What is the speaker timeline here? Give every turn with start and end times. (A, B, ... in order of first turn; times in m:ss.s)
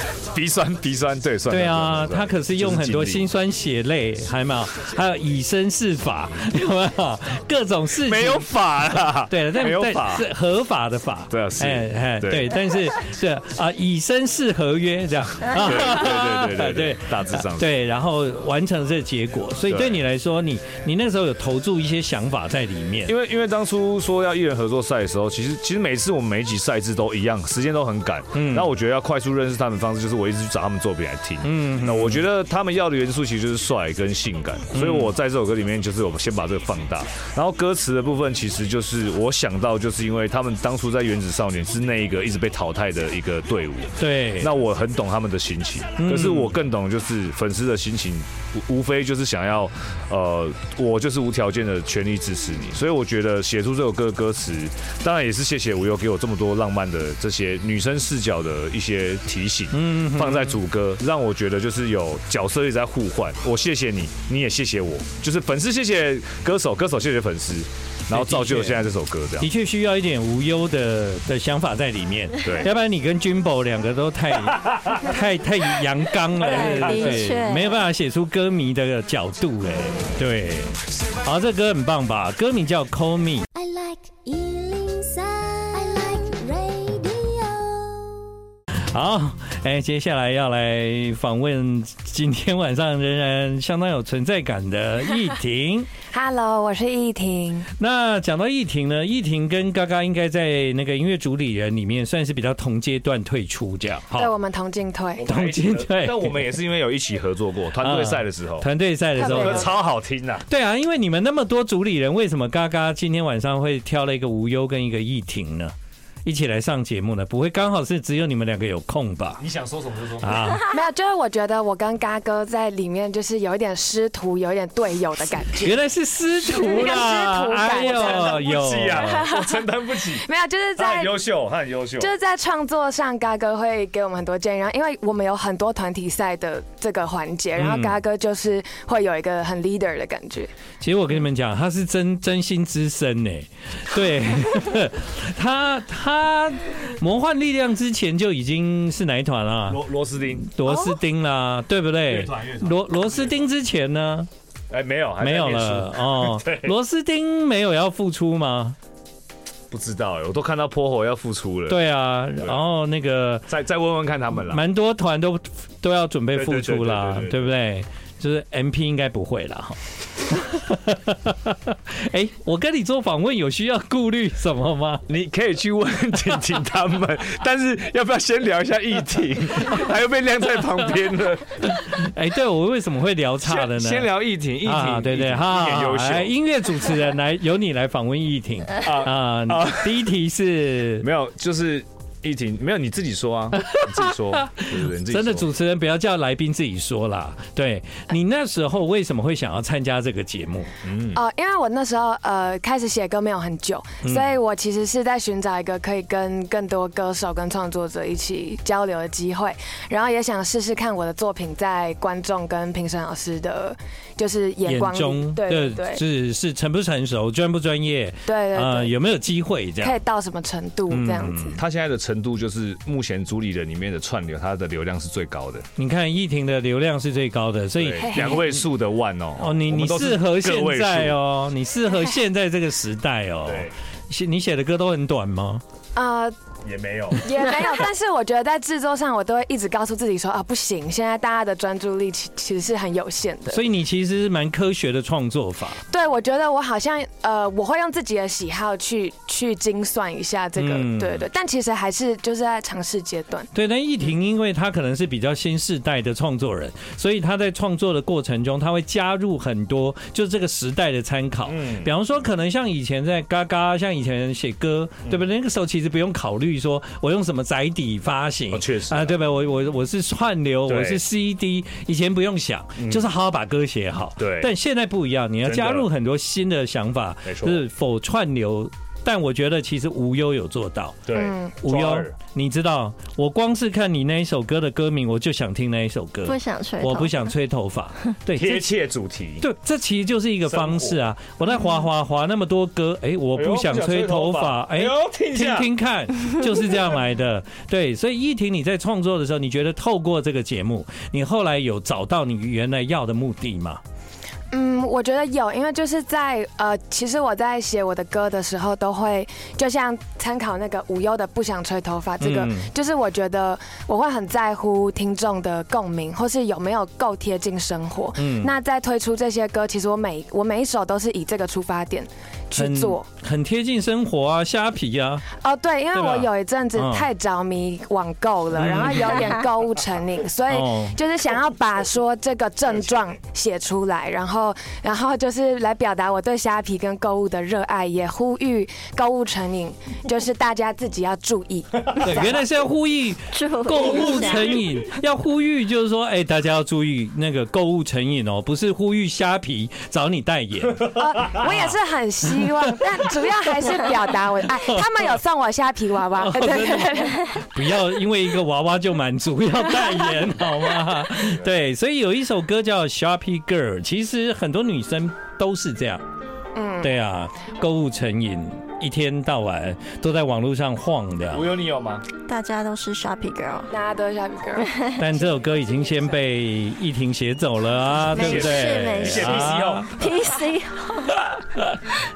0:00.3-0:03.2 A
0:01.5-0:23.2 B
0:08.0-0:10.3 A
0:11.3-0:12.6 A
0:15.5-0:17.7 A
0:19.7-0:20.0 A
0:23.1-1:09.5 A
0:28.3-0:28.7 B
0:31.4-0:32.2 B
0:34.7-0:35.1 B
0:44.0-0:44.5 B
0:46.0-0:46.6 B
0:59.7-1:00.6 B
1:08.1-1:23.5 B
1:12.4-1:12.7 A
1:14.5-1:15.0 A
1:16.4-1:17.8 C
1:16.4-1:17.2 A
1:23.6-1:28.1 D
1:28.9-1:35.9 B
1:36.1-1:37.7 E
1:37.8-1:44.3 B
1:44.1-1:45.3 E
1:45.2-1:48.7 A
1:45.2-1:46.6 B
1:47.8-1:49.7 B
1:49.2-1:49.7 E
1:49.2-1:50.5 A
1:50.5-1:55.7 B
1:56.2-1:59.4 B
1:59.4-2:00.6 A
2:00.2-2:00.6 B
2:00.7-2:05.8 E
2:05.6-2:09.3 B
2:06.4-2:09.7 E
2:07.8-2:10.3 A
2:10.2-2:11.2 E
2:10.8-2:12.1 A
2:12.0-2:20.5 E
2:17.6-2:18.0 B
2:20.8-2:29.8 B
2:29.7-2:30.5 A
2:30.4-2:34.3 B
2:32.1-2:33.3 A
2:34.7-2:36.8 A
2:35.2-2:38.8 B
2:39.7-2:41.8 A
2:41.7-2:43.5 B
2:43.5-2:44.6 A
2:44.4-2:55.0 B
2:46.3-2:47.4 A
2:55.1-3:01.8 A
3:01.6-3:11.1 B
3:03.4-3:06.3 A
3:08.8-3:10.0 A
3:11.0-3:15.5 A
3:13.5-3:20.7 B
3:20.8-3:21.2 A
3:21.1-3:36.0 E
3:24.0-3:24.3 B
3:34.7-3:40.0 B
3:38.3-3:39.0 E
3:39.8-3:41.6 E
3:40.9-3:41.6 B
3:41.6-3:45.7 A
3:45.8-3:48.6 B
3:47.8-3:51.2 A
3:48.0-3:48.4 E
3:49.4-3:55.6 B
3:53.4-3:53.8 A
3:56.0-3:56.4 E
3:56.6-3:57.3 A
3:57.2-4:03.6 E
4:03.5-4:05.8 B
4:05.9-4:13.5 E
4:10.6-4:11.3 B
4:13.5-4:48.8 B
4:21.5-4:21.9 A
4:28.5-4:29.2 A
4:30.7-4:31.0 A
4:32.8-4:33.0 A
4:34.2-4:34.5 A
4:35.4-4:35.9 A
4:37.3-4:37.6 A
4:41.1-4:42.1 A
4:41.2-4:41.6 E
4:46.3-4:47.3 C
4:48.3-4:49.5 A
4:49.4-5:03.8 B
4:50.5-4:51.0 A
4:53.4-4:55.7 A
5:04.5-5:23.1 E
5:12.2-5:12.7 B
5:18.2-5:18.5 B
5:22.5-5:25.3 B
5:25.4-5:42.4 E
5:25.9-5:27.1 B
5:28.6-5:29.3 B
5:30.5-5:31.0 B
5:42.0-5:51.8 B
5:43.3-5:44.7 C
5:50.9-5:57.4 E
5:52.3-5:53.8 B
5:56.1-6:06.0 B
6:06.6-6:06.9 E
6:06.8-6:11.5 B
6:11.3-6:12.0 A
6:12.3-6:13.7 C
6:13.7-6:14.8 E
6:14.6-6:15.0 C
6:15.0-6:19.9 B
6:18.1-6:19.9 A
6:18.1-6:21.3 C